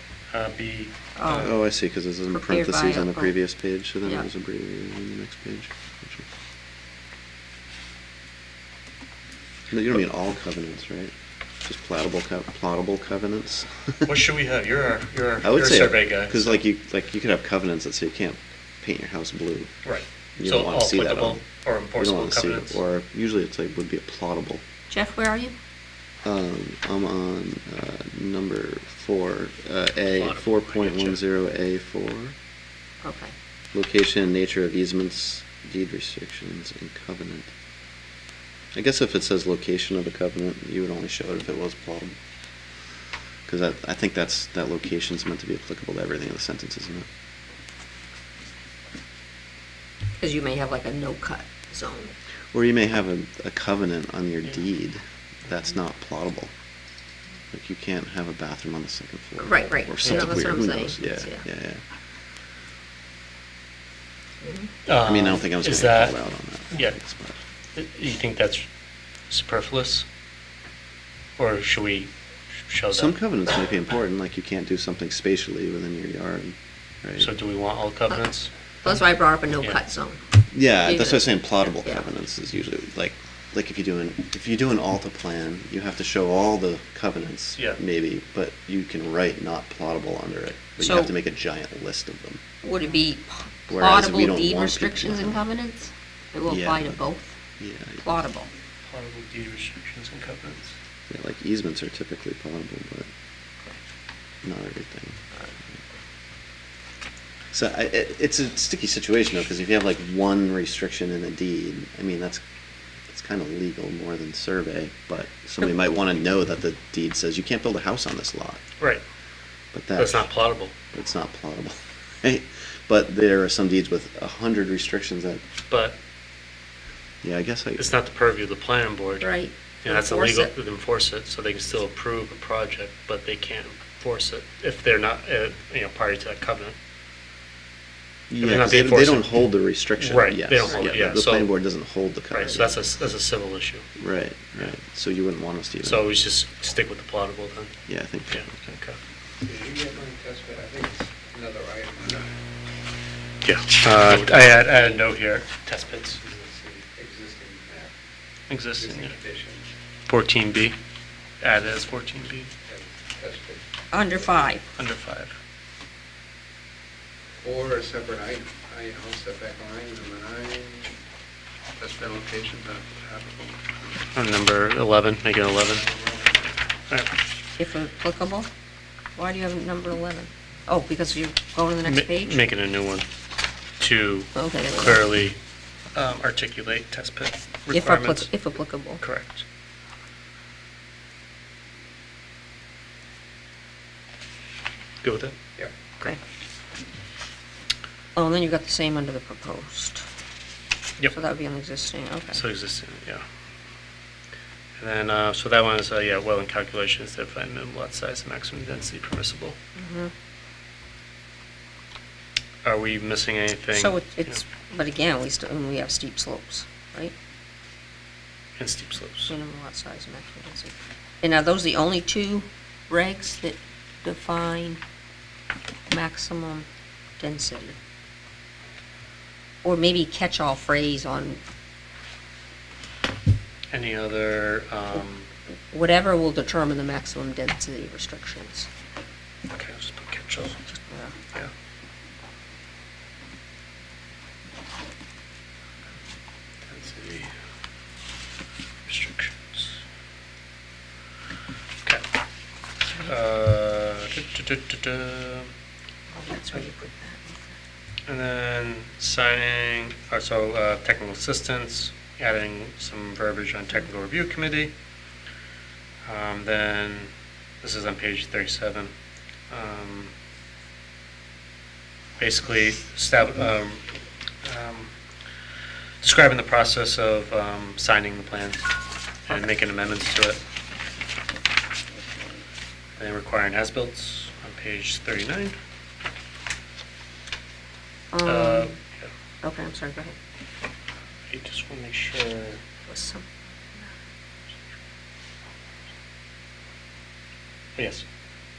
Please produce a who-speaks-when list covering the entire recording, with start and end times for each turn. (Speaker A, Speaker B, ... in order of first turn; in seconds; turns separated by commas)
Speaker A: 0.3-1.5, Speaker B: 1.1-1.6, Speaker C: 1.3-6.2, Speaker B: 2.3-3.3, Speaker C: 9.7-11.1, Speaker C: 11.6-14.1, Speaker A: 14.0-16.6, Speaker C: 15.4-19.7, Speaker A: 19.8-22.8, Speaker C: 20.4-21.4, Speaker C: 21.9-24.6, Speaker B: 24.9-25.5, Speaker C: 26.2-32.3, Speaker A: 30.1-31.2, Speaker B: 33.0-33.3, Speaker C: 33.7-37.5, Speaker C: 38.7-42.1, Speaker C: 43.5-47.1, Speaker B: 50.2-52.1, Speaker C: 52.5-56.5, Speaker C: 57.5-61.8, Speaker B: 59.4-61.4, Speaker A: 60.0-60.4, Speaker B: 64.4-64.7, Speaker A: 64.8-66.1, Speaker C: 65.0-67.4, Speaker A: 67.8-68.7, Speaker A: 69.3-70.0, Speaker A: 71.4-72.1, Speaker A: 72.7-73.2, Speaker C: 72.9-77.3, Speaker A: 77.2-78.5, Speaker B: 78.8-80.2, Speaker C: 80.5-92.4, Speaker B: 80.8-81.3, Speaker B: 90.8-91.1, Speaker B: 92.6-97.3, Speaker C: 93.7-95.4, Speaker C: 96.5-97.0, Speaker C: 97.6-98.1, Speaker B: 98.0-98.5, Speaker A: 98.8-100.8, Speaker C: 101.1-103.1, Speaker C: 104.4-105.2, Speaker C: 107.5-112.4, Speaker C: 113.1-118.6, Speaker C: 119.7-120.3, Speaker A: 120.0-120.7, Speaker C: 120.9-125.4, Speaker A: 125.7-126.0, Speaker C: 127.2-127.9, Speaker A: 127.8-129.3, Speaker B: 129.2-130.5, Speaker A: 129.8-136.8, Speaker C: 138.3-142.8, Speaker A: 138.4-139.4, Speaker A: 140.0-141.5, Speaker A: 142.3-143.8, Speaker C: 144.0-146.1, Speaker A: 145.8-147.7, Speaker C: 147.9-148.5, Speaker A: 148.3-149.0, Speaker D: 149.4-152.3, Speaker A: 153.4-156.2, Speaker D: 154.1-155.0, Speaker D: 156.2-157.9, Speaker A: 158.5-159.2, Speaker D: 158.8-159.7, Speaker A: 160.1-160.8, Speaker A: 161.4-162.5, Speaker D: 162.7-163.6, Speaker B: 163.9-164.6, Speaker A: 164.8-165.3, Speaker D: 167.4-171.0, Speaker D: 171.8-173.6, Speaker A: 174.1-175.9, Speaker D: 175.7-176.5, Speaker B: 177.6-178.5, Speaker B: 179.2-182.4, Speaker A: 181.8-183.1, Speaker A: 183.8-185.4, Speaker B: 184.3-185.0, Speaker A: 185.9-188.3, Speaker B: 187.7-189.0, Speaker A: 189.0-189.4, Speaker A: 195.0-195.3, Speaker B: 198.1-200.0, Speaker B: 201.1-202.4, Speaker A: 202.3-203.2, Speaker A: 204.8-209.6, Speaker B: 209.8-210.1, Speaker A: 212.6-214.4, Speaker B: 213.7-217.1, Speaker A: 218.6-219.3, Speaker B: 219.3-224.8, Speaker B: 225.9-226.7, Speaker B: 227.2-227.8, Speaker B: 229.6-231.4, Speaker A: 233.7-235.3, Speaker B: 235.7-238.7, Speaker A: 239.5-240.6, Speaker B: 240.7-241.1, Speaker A: 246.6-247.3, Speaker A: 248.8-249.8, Speaker A: 253.0-255.5, Speaker B: 256.1-257.5, Speaker A: 258.1-264.7, Speaker A: 266.0-267.1, Speaker A: 267.6-268.9, Speaker A: 269.5-270.1, Speaker A: 272.2-273.8, Speaker A: 274.4-274.9, Speaker A: 276.0-278.7, Speaker A: 279.3-280.4, Speaker A: 283.0-285.6, Speaker B: 288.1-288.7, Speaker A: 288.2-289.1, Speaker B: 289.4-290.1, Speaker A: 291.3-292.6, Speaker B: 292.9-293.3, Speaker A: 297.8-298.1